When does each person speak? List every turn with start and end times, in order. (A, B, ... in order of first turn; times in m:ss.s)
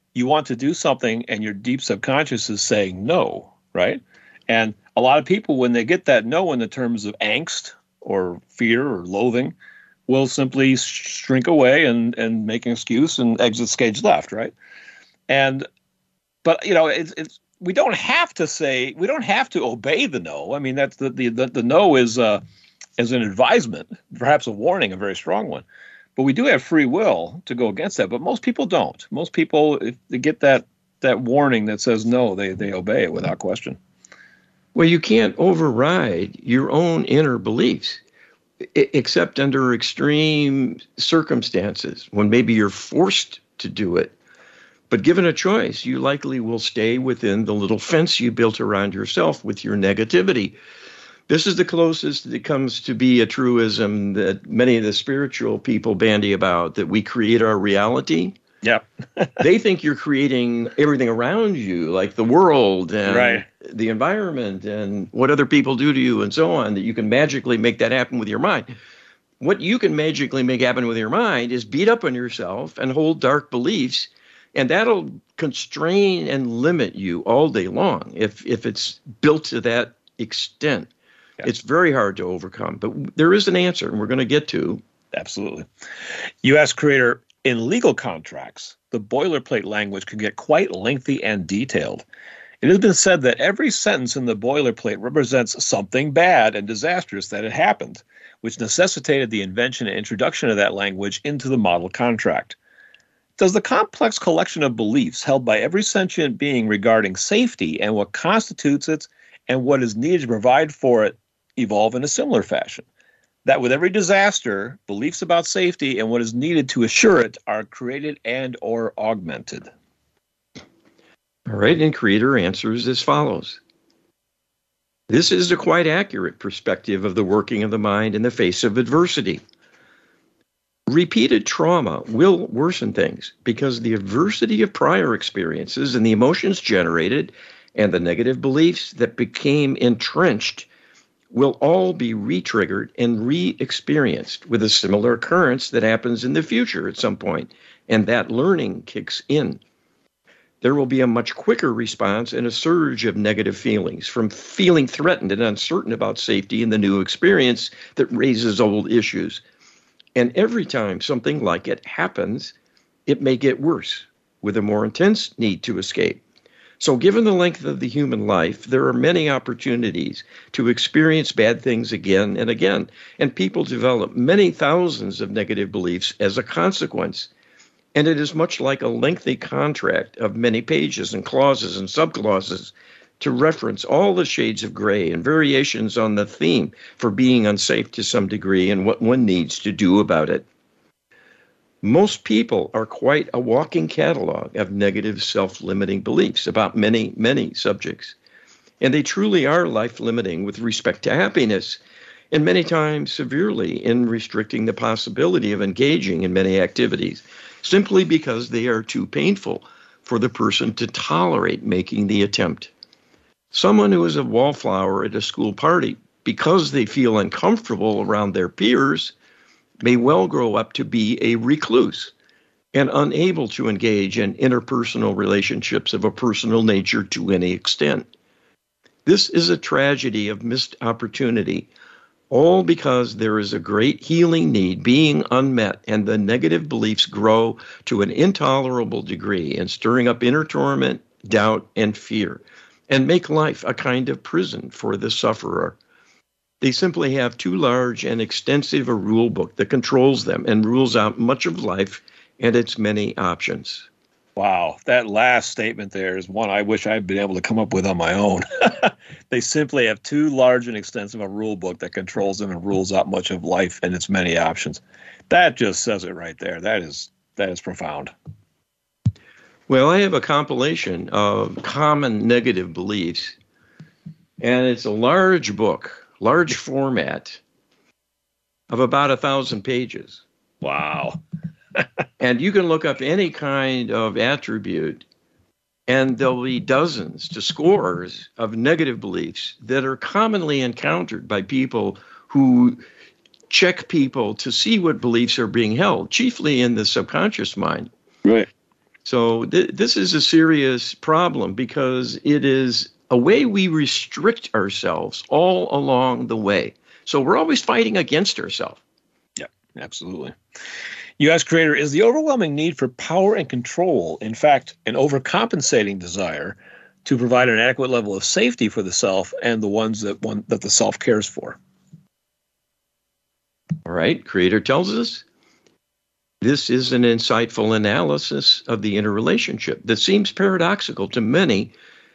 0:00.1-0:09.5 A
0:10.1-0:14.5 A
0:15.3-0:15.6 A
0:16.4-0:22.4 A
0:23.0-0:25.6 A
0:26.2-0:33.8 A
0:34.7-0:38.0 B
0:38.7-0:44.1 B
0:44.9-0:50.6 B
0:51.3-0:58.4 B
0:58.6-0:59.4 A
0:59.4-1:08.7 B
1:03.0-1:03.4 A
1:09.4-1:20.9 B
1:21.4-1:24.8 B
1:25.1-1:25.6 A
1:26.4-1:32.0 A
1:32.6-1:42.6 A
1:43.4-1:52.8 A
1:53.4-1:59.7 A
2:01.5-2:03.6 B
2:05.1-2:09.4 B
2:10.9-2:20.7 B
2:21.3-2:29.6 B
2:30.6-2:39.4 B
2:40.1-2:42.5 B
2:43.0-2:46.2 B
2:46.8-2:57.3 B
2:57.9-3:10.4 B
3:11.8-3:18.2 B
3:18.8-3:21.8 B
3:22.3-3:32.7 B
3:33.5-3:39.1 B
3:39.8-3:42.1 B
3:42.7-3:48.1 B
3:49.0-3:51.7 B
3:52.3-4:05.8 B
4:06.6-4:13.9 B
4:14.4-4:28.1 A
4:29.7-4:33.3 B
4:34.4-4:37.4 B
4:38.7-4:40.2 B
4:40.6-4:41.2 A
4:42.2-4:45.0 B
4:45.9-4:52.8 B
4:53.5-4:57.9 B
4:59.0-5:08.8 B
5:09.4-5:10.3 A
5:11.2-5:21.6 A
5:23.8-5:25.2 B
5:26.4-5:31.7 B